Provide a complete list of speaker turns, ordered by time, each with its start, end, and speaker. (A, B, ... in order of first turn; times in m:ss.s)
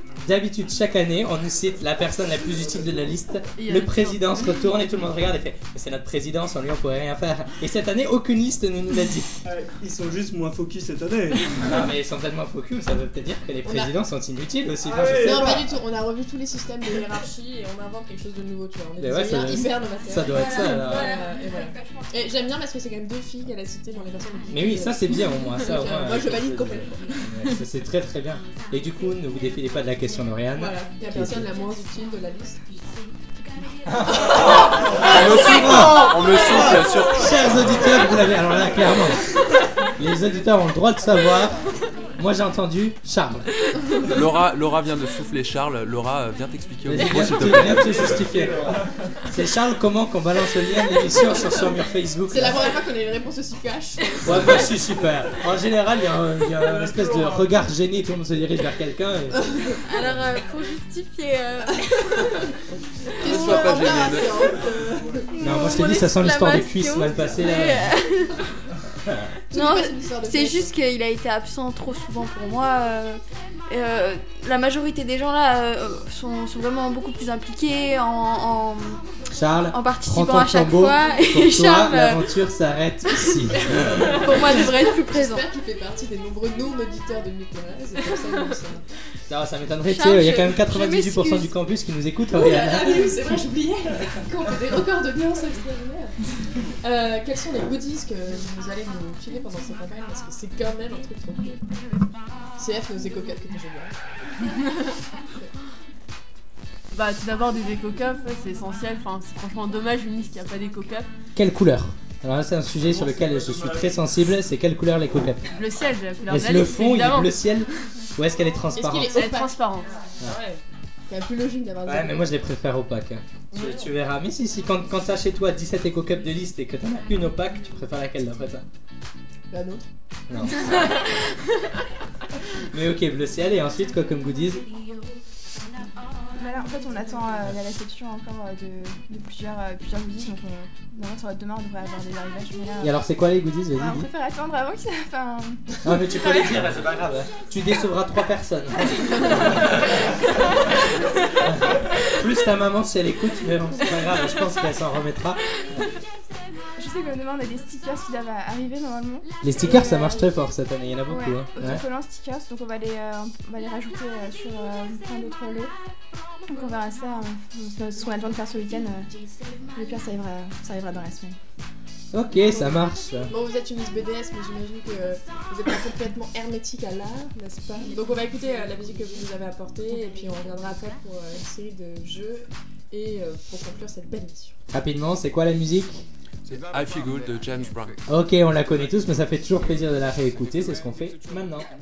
0:00.2-0:09.3 A
0:03.6-0:04.4 B
0:09.4-0:11.8 C
0:11.6-0:15.7 A
0:13.6-0:14.0 D
0:14.8-0:15.6 C
0:15.2-0:27.2 D
0:19.0-0:21.2 A
0:20.3-0:22.5 E
0:24.5-0:31.4 A
0:30.5-0:32.6 D
0:33.9-0:39.2 A
0:34.4-0:35.1 D
0:35.0-0:37.9 F
0:40.0-0:41.6 A
0:42.2-0:43.5 A
0:44.0-0:48.2 F
0:46.8-0:48.8 A
0:47.7-0:48.8 C
0:49.3-0:52.6 A
0:52.3-0:54.7 D
0:54.2-0:59.4 A
0:56.8-0:57.5 C
0:59.4-0:59.7 D
0:59.8-1:02.5 E
1:02.6-1:05.3 D
1:03.2-1:04.4 F
1:03.3-1:03.7 E
1:05.3-1:08.3 E
1:05.4-1:07.9 A
1:09.5-1:10.7 D
1:09.6-1:19.0 E
1:19.3-1:24.4 A
1:19.7-1:22.2 E
1:24.1-1:25.4 E
1:24.3-1:28.8 D
1:29.3-1:33.3 A
1:29.9-1:31.5 E
1:32.3-1:36.1 D
1:36.8-1:41.6 D
1:42.6-1:43.9 D
1:46.9-1:51.1 B
1:51.4-1:55.4 A
1:52.8-1:54.0 C
1:55.5-1:57.4 B
1:56.3-1:59.2 A
1:58.7-2:02.4 D
1:59.1-1:59.9 B
2:01.8-2:08.6 A
2:03.5-2:03.9 D
2:09.5-2:09.8 D
2:10.3-2:10.7 A
2:12.7-2:14.6 A
2:16.3-2:23.0 G
2:22.8-2:24.1 A
2:23.7-2:26.5 G
2:25.8-2:29.7 A
2:31.4-2:35.4 A
2:36.8-2:40.2 G
2:39.4-2:41.8 A
2:39.6-2:40.3 D
2:41.1-2:45.7 G
2:46.5-2:49.1 G
2:49.7-2:51.4 G
2:52.1-2:53.3 A
2:52.4-3:04.5 D
3:04.7-3:06.0 A
3:06.4-3:08.0 F
3:08.1-3:11.7 A